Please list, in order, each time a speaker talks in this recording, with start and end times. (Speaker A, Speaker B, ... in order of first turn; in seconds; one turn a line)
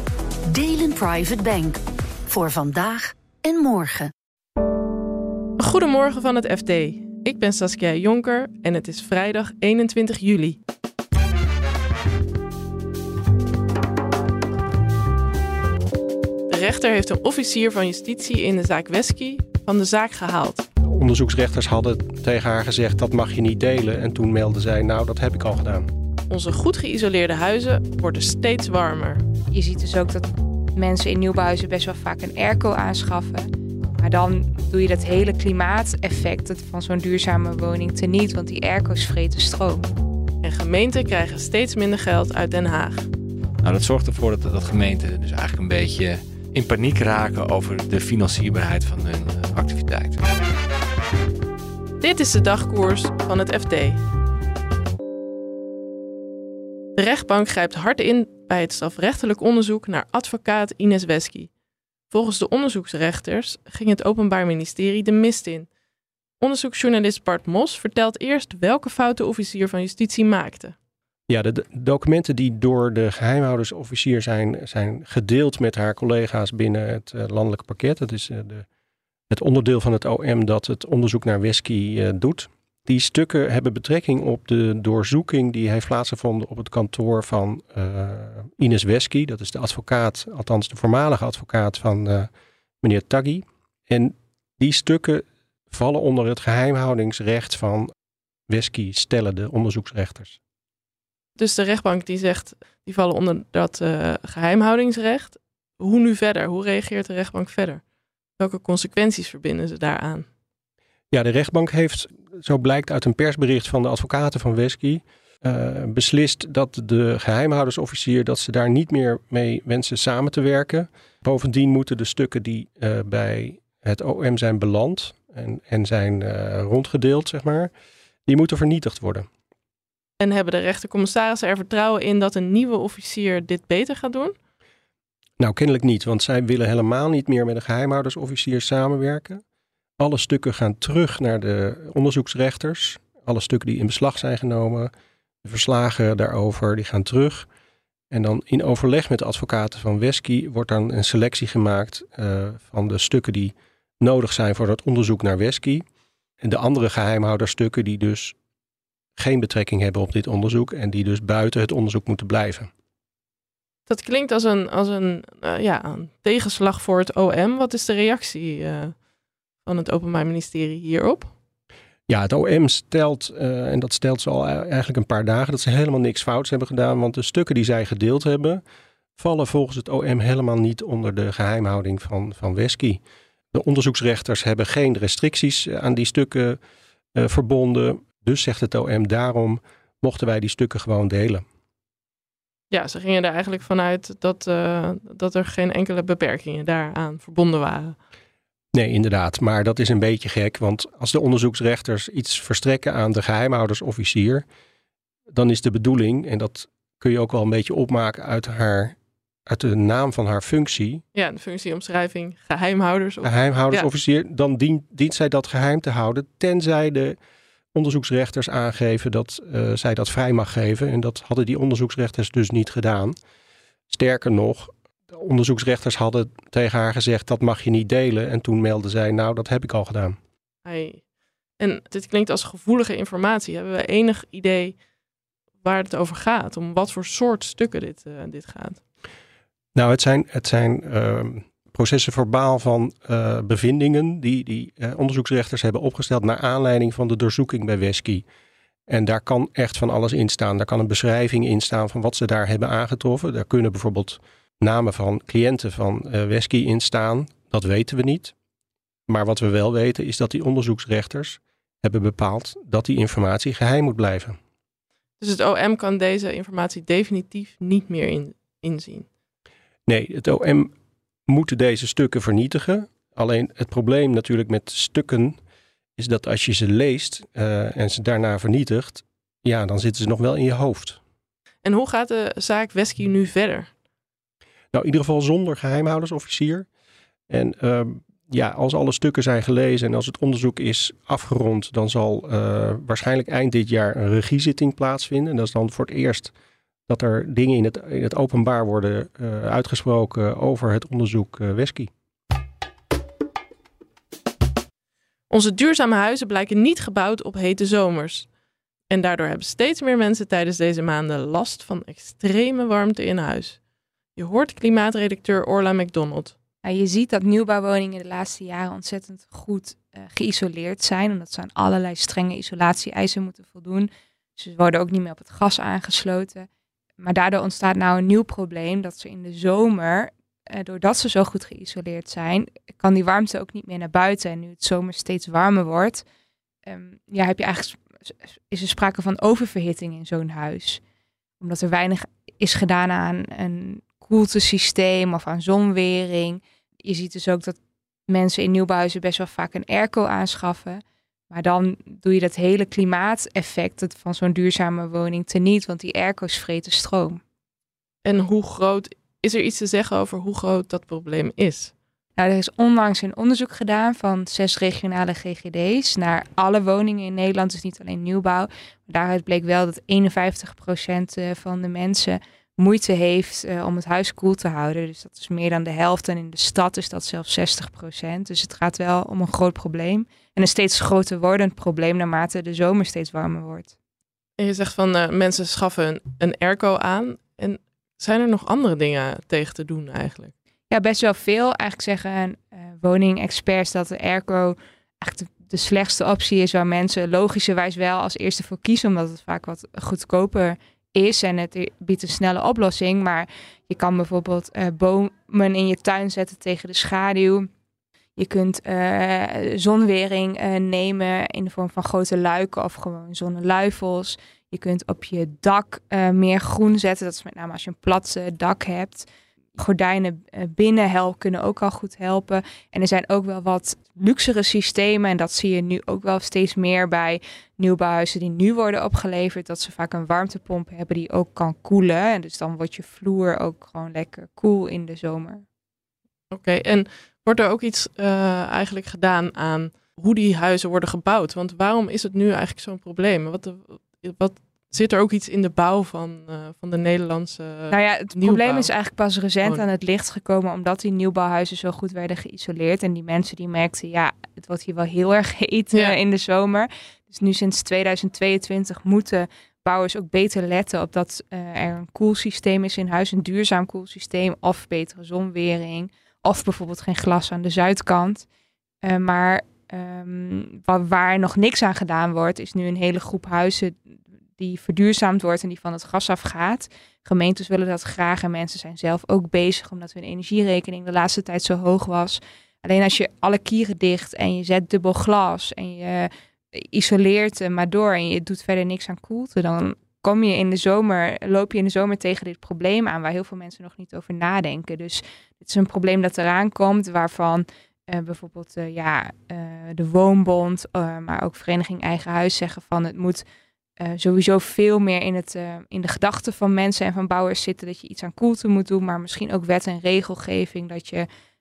Speaker A: 0.5-4.1
Speaker B: 5.6-10.6
Speaker B: 16.5-20.6
Speaker C: 20.9-25.9
Speaker B: 26.3-29.2
Speaker D: 29.5-39.9
Speaker B: 40.4-43.1
Speaker E: 43.6-50.2
Speaker B: 52.0-54.0
Speaker B: 57.0-61.5
Speaker B: 62.1-65.7
Speaker B: 66.4-70.8
Speaker C: 71.3-78.7
Speaker C: 79.3-92.3
Speaker C: 92.8-97.9
Speaker C: 98.5-100.4
Speaker B: 101.4-107.8
Speaker B: 108.4-110.3
Speaker C: 111.1-127.7
Speaker C: 128.3-129.3
Speaker B: 130.2-134.3
Speaker C: 135.4-139.4
Speaker C: 140.0-144.9
Speaker C: 145.4-147.5
Speaker C: 148.1-155.8
Speaker C: 156.4-158.3
Speaker C: 159.2-162.7
Speaker B: 163.9-168.9
Speaker B: 169.7-171.3
Speaker C: 172.1-178.6
Speaker C: 179.2-183.0
Speaker C: 183.5-186.6
Speaker C: 187.2-191.4
Speaker B: 192.7-198.0
Speaker C: 198.8-204.4
Speaker C: 205.3-209.0
Speaker C: 209.5-211.0
Speaker B: 211.1-213.9
Speaker C: 213.2-217.2
Speaker C: 217.7-223.2
Speaker C: 223.9-230.2
Speaker B: 230.7-231.0
Speaker B: 231.6-234.8
Speaker B: 235.6-238.8
Speaker C: 239.8-248.2
Speaker C: 248.9-258.3
Speaker C: 259.1-264.4
Speaker B: 265.2-269.1
Speaker C: 269.9-270.7
Speaker C: 271.3-275.4
Speaker C: 276.0-281.0
Speaker B: 281.6-283.7
Speaker C: 284.7-286.7
Speaker C: 287.3-296.3
Speaker C: 296.9-301.9
Speaker B: 305.3-308.3
Speaker B: 308.9-313.6
Speaker B: 314.2-316.3
Speaker D: 316.6-326.5
Speaker D: 327.0-336.0
Speaker D: 336.7-337.8
Speaker D: 338.5-340.8
Speaker D: 341.4-357.2
Speaker B: 358.1-361.7
Speaker D: 362.2-383.7
Speaker B: 384.4-390.3
Speaker D: 390.7-407.5
Speaker D: 408.2-419.1
Speaker D: 419.6-435.4
Speaker B: 436.3-448.7
Speaker D: 447.7-468.2
Speaker D: 468.8-473.8
Speaker D: 474.4-503.2
Speaker D: 503.8-511.1